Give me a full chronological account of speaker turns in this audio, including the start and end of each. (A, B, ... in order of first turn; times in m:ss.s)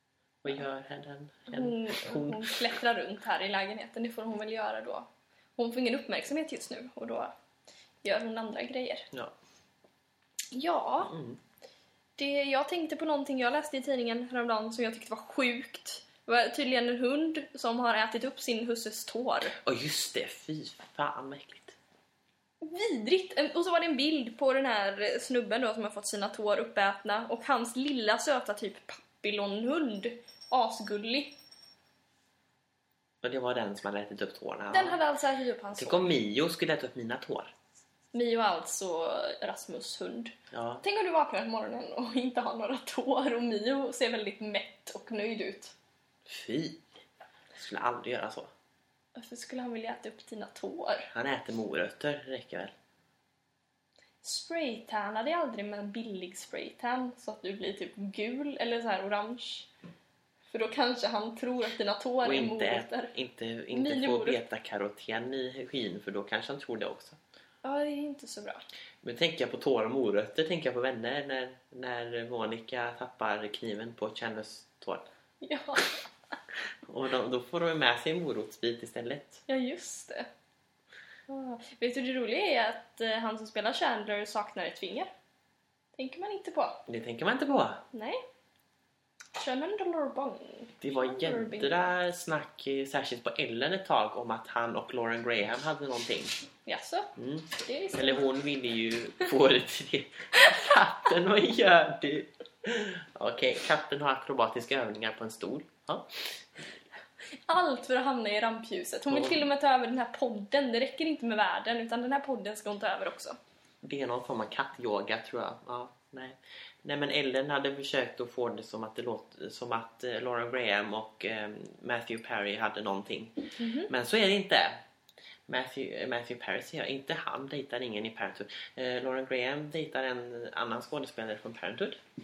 0:00.4-0:02.7 A
0:01.5-0:07.3 B
0:08.0-0:09.1 B
0:10.5-0:11.1 B
0:11.0-0:11.4 A
0:12.2-0:19.5 B
0:19.5-0:21.8 A
0:22.6-0:31.3 B
0:33.2-0:35.0 A
0:34.7-0:36.1 B
0:35.8-0:37.5 A
0:38.1-0:45.7 B
0:40.5-0:40.8 A
0:46.2-0:46.8 A
0:47.5-0:48.5 A
0:49.2-0:51.1 B
0:51.1-0:52.7 A
0:54.2-0:59.7 B
1:00.5-1:03.1 B
1:02.2-1:07.2 A
1:03.7-1:04.4 B
1:07.6-1:08.6 B
1:09.0-1:15.0 A
1:15.4-1:16.0 B
1:16.8-1:19.4 A
1:19.5-1:20.3 B
1:21.3-1:25.1 B
1:26.0-1:26.8 B
1:26.9-1:27.8 A
1:27.9-1:28.2 B
1:29.4-1:31.9 B
1:30.8-1:36.4 A
1:36.6-1:38.2 B
1:37.2-1:46.4 A
1:47.5-1:53.4 B
1:49.1-1:49.4 A
1:53.8-2:03.3 A
2:03.6-2:03.9 B
2:03.9-2:04.8 A
2:05.5-2:12.0 A